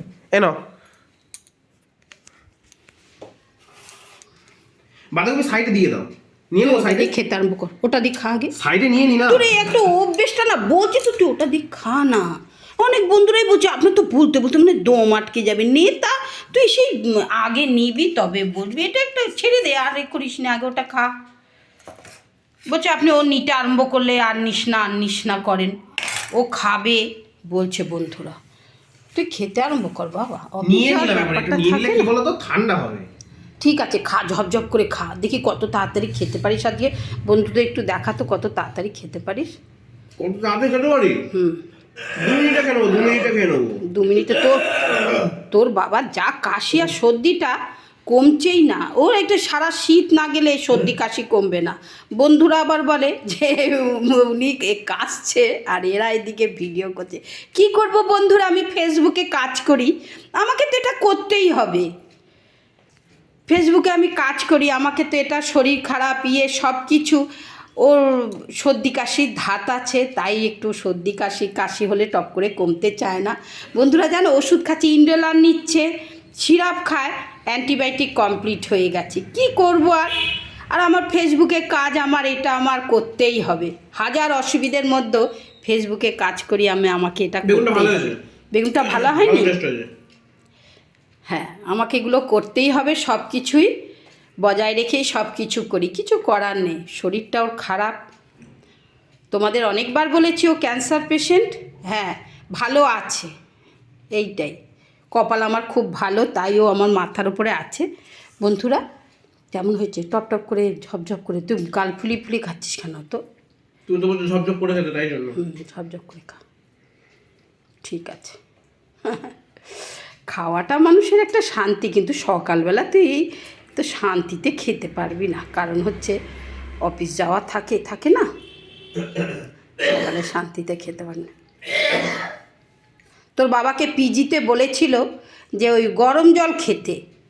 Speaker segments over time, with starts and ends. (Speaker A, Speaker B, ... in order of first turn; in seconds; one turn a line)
Speaker A: 5.1-7.1
Speaker B: 6.6-8.5
Speaker A: 8.6-9.5
Speaker B: 9.3-21.1
Speaker B: 22.7-25.8
Speaker B: 26.4-28.4
Speaker B: 29.1-32.1
Speaker A: 30.6-33.1
Speaker B: 33.6-39.5
Speaker A: 40.2-41.2
Speaker B: 41.3-41.6
Speaker A: 42.0-43.8
Speaker B: 43.8-47.6
Speaker B: 48.1-61.9
Speaker B: 63.5-67.2
Speaker B: 67.8-75.9
Speaker B: 76.4-80.1
Speaker B: 80.7-89.5
Speaker A: 87.5-88.2
Speaker A: 88.8-89.9
Speaker B: 91.3-93.7
Speaker B: 94.4-98.0
Speaker B: 99.3-103.3
Speaker B: 104.1-104.6
Speaker B: 105.2-107.9
Speaker B: 108.4-108.8
Speaker B: 109.5-113.2
Speaker A: 113.9-115.4
Speaker B: 115.3-116.4
Speaker B: 117.8-118.4
Speaker B: 119.0-123.2
Speaker B: 123.8-126.2
Speaker B: 126.8-128.3
Speaker B: 129.8-131.3
Speaker B: 133.4-135.0
Speaker B: 135.6-137.0